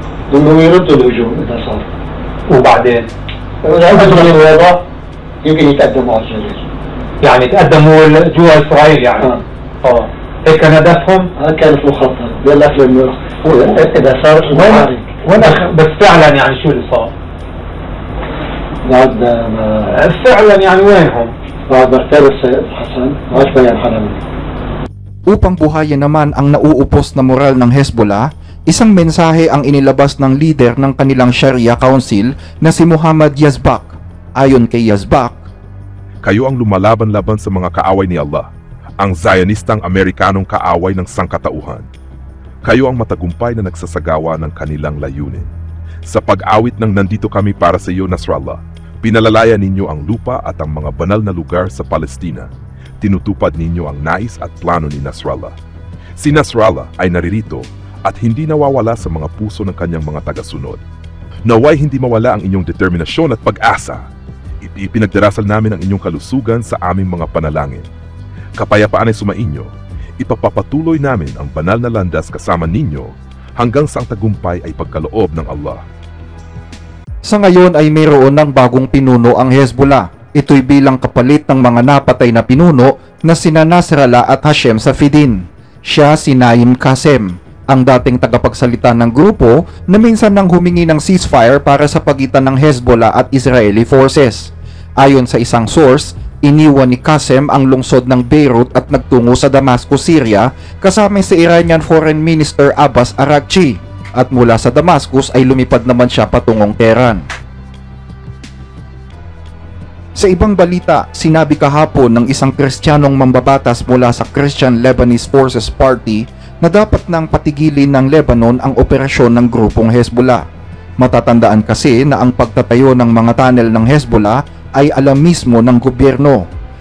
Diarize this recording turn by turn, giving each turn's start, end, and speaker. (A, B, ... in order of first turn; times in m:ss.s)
0:00.3-0:01.9 A
0:02.5-0:03.1 B
0:03.6-0:04.8 A
0:05.4-0:06.6 A
0:07.2-0:11.3 B
0:11.4-0:15.2 A
0:15.4-0:17.1 B
0:18.8-0:20.0 A
0:19.9-0:21.3 B
0:21.7-0:24.2 A
0:25.3-0:35.4 C
0:36.2-0:38.5 D
0:39.0-0:41.9 D
0:42.6-0:45.5 D
0:46.1-0:52.5 D
0:53.0-0:55.5 D
0:56.2-1:00.8 D
1:01.5-1:04.0 D
1:04.6-1:07.9 D
1:08.6-1:09.7 D
1:10.2-1:15.8 D
1:17.3-1:47.2 C
1:50.2-2:00.4 C
2:01.0-2:06.4 C